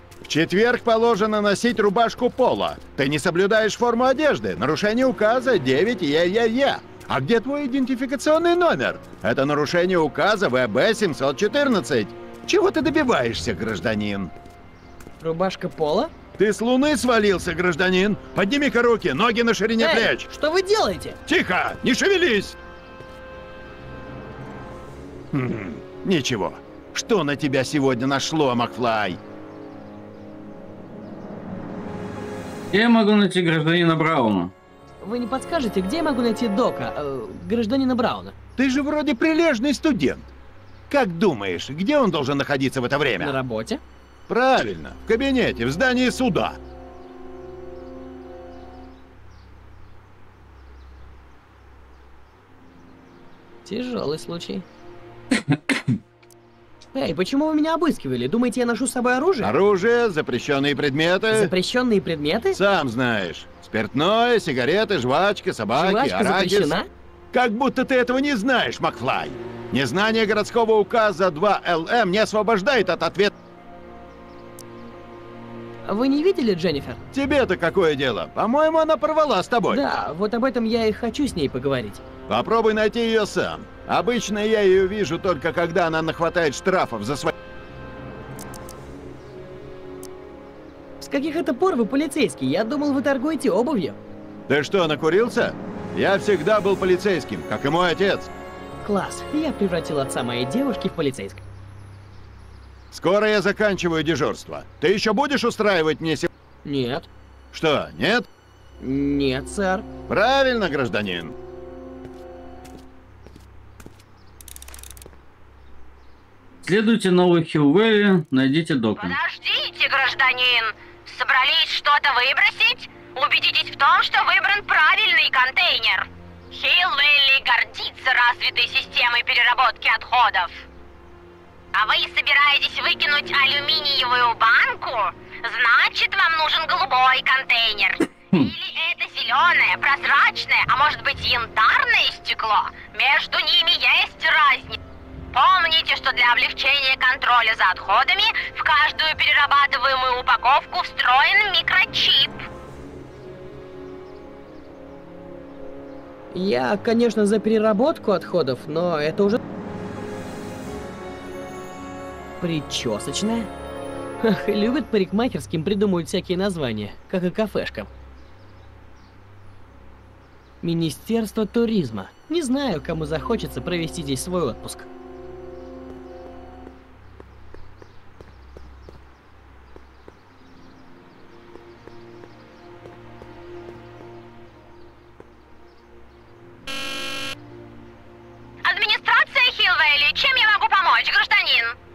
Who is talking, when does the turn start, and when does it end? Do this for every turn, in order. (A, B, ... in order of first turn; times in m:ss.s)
0:00.3-0:14.3 A
0:15.2-0:16.1 B
0:16.4-0:20.3 A
0:19.8-0:21.2 B
0:21.3-0:22.6 A
0:25.3-0:29.2 A
0:32.7-0:34.5 C
0:35.0-0:38.4 B
0:38.6-0:40.3 A
0:40.9-0:43.4 A
0:43.2-0:43.8 B
0:44.3-0:46.6 A
0:53.7-0:54.6 B
0:55.5-0:55.9 C
0:56.9-0:59.5 B
0:59.4-1:01.5 A
1:01.3-1:02.6 B
1:02.5-1:06.8 A
1:05.8-1:06.9 B
1:07.3-1:13.3 A
1:15.9-1:17.0 B
1:17.1-1:19.8 A
1:19.7-1:22.0 B
1:22.3-1:27.3 A
1:31.0-1:34.0 B
1:34.5-1:38.3 A
1:38.8-1:41.4 B
1:42.9-1:46.3 A
1:46.6-1:47.1 B
1:47.5-1:48.3 A
1:48.8-1:49.9 B
1:50.1-1:51.3 A
1:56.6-1:59.2 C
1:59.0-2:10.6 D
2:11.7-2:24.8 D
2:25.3-2:32.4 D
2:36.3-2:39.4 B
2:42.4-2:43.5 B
2:44.2-2:47.9 B
2:50.6-2:54.9 B
3:08.6-3:11.8 D